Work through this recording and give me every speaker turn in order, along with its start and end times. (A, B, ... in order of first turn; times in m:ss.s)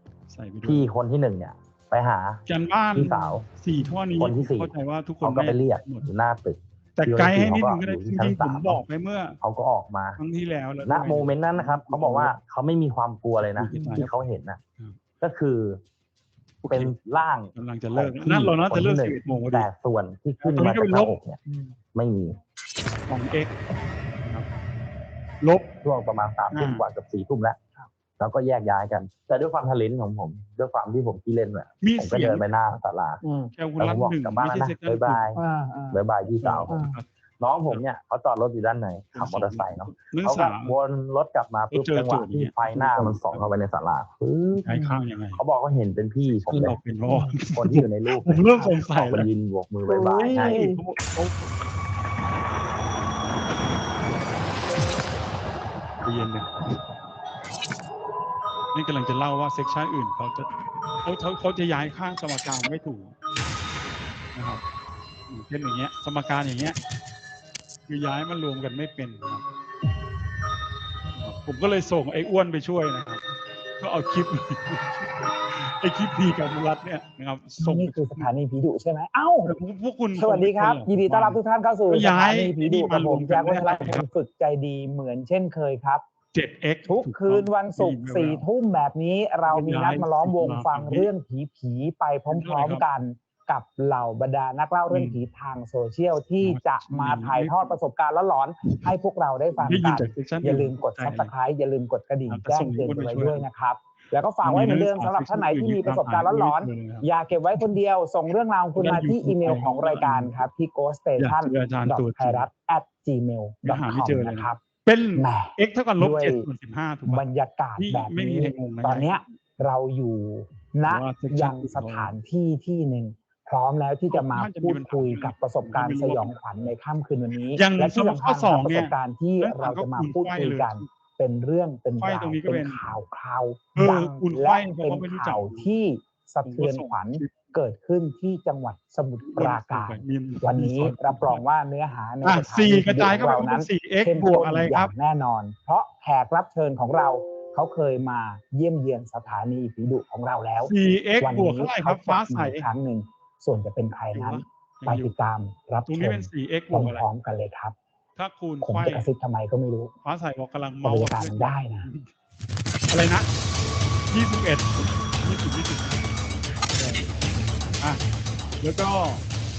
0:00.3-0:00.9 A
0:00.6-0:02.4 B
0:02.5-0:06.1 A
0:03.0-0:03.5 B
0:04.2-0:08.8 B
0:07.0-0:09.4 A
0:09.4-0:10.2 B
0:10.2-0:12.3 A
0:10.8-0:14.6 B
0:13.4-0:14.1 A
0:13.7-0:14.0 C
0:15.2-0:15.8 B
0:16.6-0:16.9 A
0:16.7-0:21.4 B
0:17.5-0:19.7 A
0:20.4-0:21.2 A
0:21.9-0:22.4 B
0:23.1-0:23.5 A
0:24.2-0:24.5 A
0:25.4-0:25.7 A
0:25.8-0:27.6 B
0:26.5-0:26.8 A
0:28.2-0:33.2 B
0:31.8-0:32.4 A
0:33.2-0:33.5 C
0:33.6-0:35.2 A
0:33.8-0:36.8 B
0:35.4-0:36.0 C
0:36.4-0:37.1 A
0:36.7-0:37.0 C
0:37.4-0:44.8 B
0:39.1-0:40.8 A
0:41.7-0:43.5 A
0:44.6-0:45.4 A
0:45.4-0:46.8 B
0:46.2-0:49.3 A
0:47.6-0:50.7 B
0:49.8-0:50.8 C
0:50.2-0:51.5 A
0:56.0-0:56.5 A
0:58.7-1:00.5 A
1:01.0-1:03.2 A
1:04.3-1:04.6 A
1:05.3-1:06.8 A
1:07.9-1:09.4 A
1:11.1-1:13.2 A
1:13.8-1:18.3 A
1:17.6-1:19.6 C
1:19.5-1:24.0 A
1:20.2-1:26.0 C
1:26.3-1:28.4 A
1:26.9-1:54.6 C
1:29.5-1:31.1 A
1:32.3-1:32.8 A
1:34.9-1:35.2 A
1:36.4-1:37.8 A
1:39.6-1:41.3 A
1:42.3-1:43.5 A
1:44.4-1:47.1 A
1:48.8-1:50.5 A
1:51.2-1:52.5 A
1:53.6-1:59.2 A
1:55.2-1:56.5 C
1:57.1-2:37.8 C
2:00.9-2:02.1 A
2:04.1-2:06.4 A
2:07.6-2:10.9 A
2:12.0-2:12.8 A
2:13.8-2:15.7 A
2:16.4-2:17.3 A
2:19.2-2:21.4 A
2:22.2-2:24.9 A
2:30.6-2:32.7 A
2:34.1-2:35.1 A
2:35.9-2:37.0 A
2:38.2-2:39.1 A
2:38.6-2:39.9 C
2:40.0-2:42.1 A
2:40.8-2:41.9 C
2:42.9-2:43.3 A
2:44.1-2:46.1 A
2:46.8-2:47.1 A
2:48.6-2:49.2 A